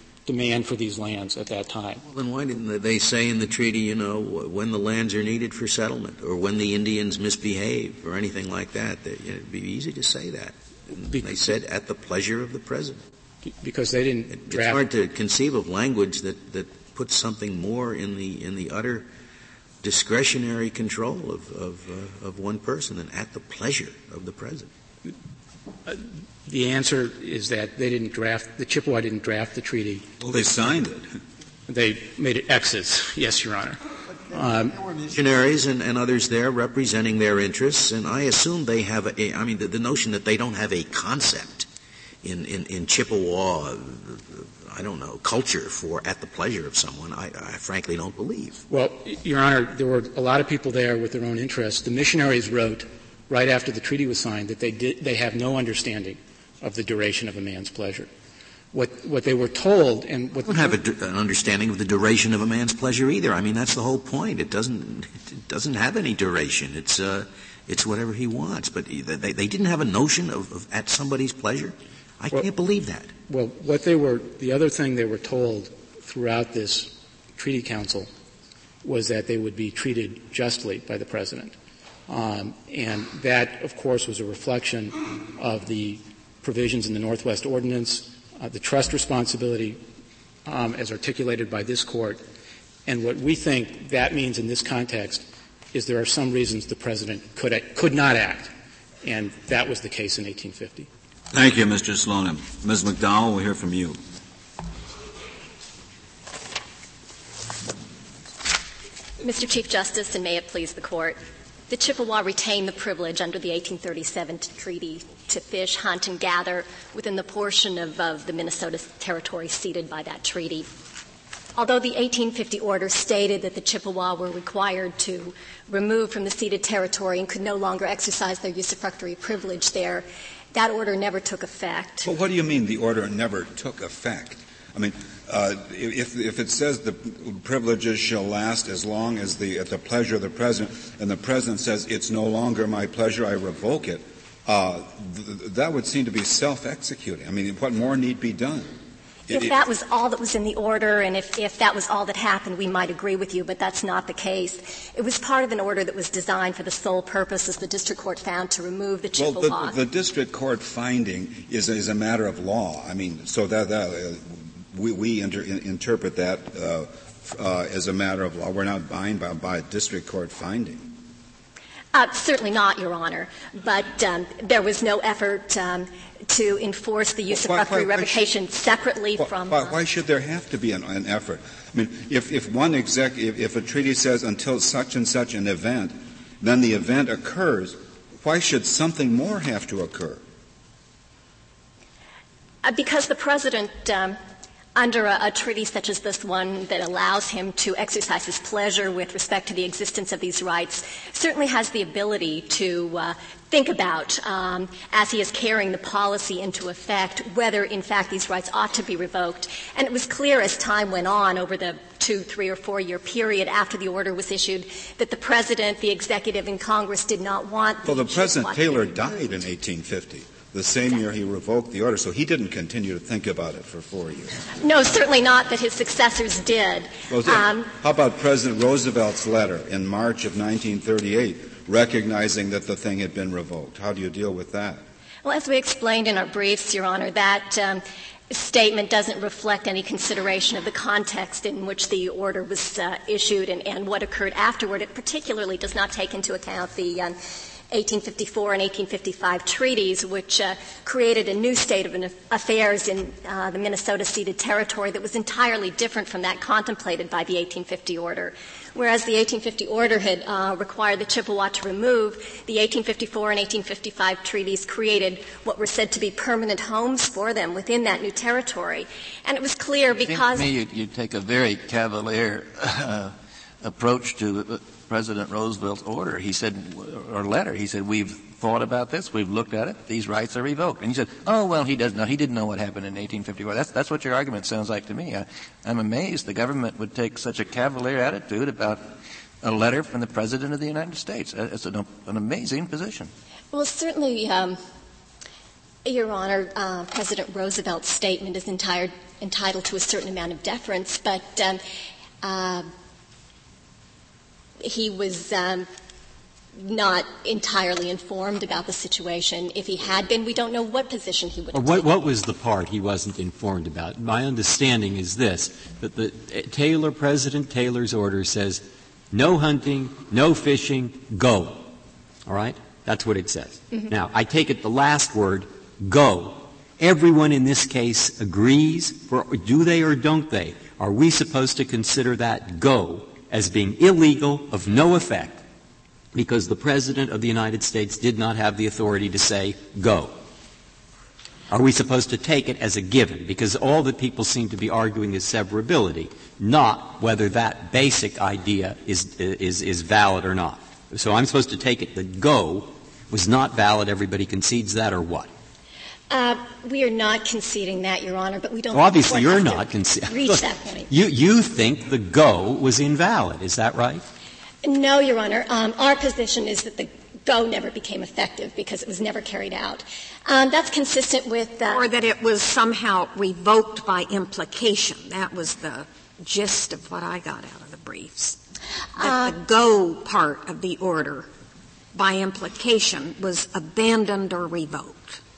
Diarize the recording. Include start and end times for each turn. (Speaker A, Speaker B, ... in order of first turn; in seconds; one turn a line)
Speaker A: 0.3-2.0
Speaker B: 2.1-13.0
Speaker A: 10.9-11.6
Speaker A: 13.5-14.9
Speaker B: 14.3-19.1
Speaker B: 19.8-24.7
Speaker A: 25.9-30.8
Speaker C: 30.2-31.1
Speaker A: 31.7-33.8
Speaker A: 34.3-34.8
Speaker B: 35.1-41.7
Speaker B: 42.2-48.6
Speaker A: 48.7-58.1
Speaker A: 58.7-60.8
Speaker B: 60.4-73.1
Speaker A: 73.3-78.1
Speaker A: 78.8-81.5
Speaker A: 82.1-89.8
Speaker A: 90.5-92.2
Speaker A: 92.9-98.5
Speaker A: 99.0-100.9
Speaker C: 101.3-104.0
Speaker D: 109.2-111.2
Speaker D: 111.7-120.7
Speaker D: 121.6-132.1
Speaker C: 132.0-148.7
Speaker C: 149.3-149.6
Speaker D: 149.3-159.8
Speaker C: 159.2-170.9
Speaker D: 171.9-179.8
Speaker C: 177.3-178.3
Speaker C: 179.2-190.2
Speaker D: 192.6-194.2
Speaker D: 194.8-219.4
Speaker C: 217.8-224.4
Speaker D: 224.6-227.7
Speaker C: 227.1-234.8
Speaker D: 235.2-247.2
Speaker D: 247.7-270.5
Speaker E: 269.9-293.1
Speaker D: 293.5-294.6
Speaker D: 295.9-301.6
Speaker D: 302.2-302.6
Speaker D: 304.6-305.7
Speaker D: 306.6-311.9
Speaker F: 311.5-321.7
Speaker F: 322.3-335.4
Speaker F: 336.1-340.2
Speaker F: 341.5-355.3
Speaker D: 356.1-360.9
Speaker F: 358.7-364.0
Speaker D: 364.6-371.9
Speaker G: 371.7-378.4
Speaker G: 379.0-381.3
Speaker G: 381.9-385.2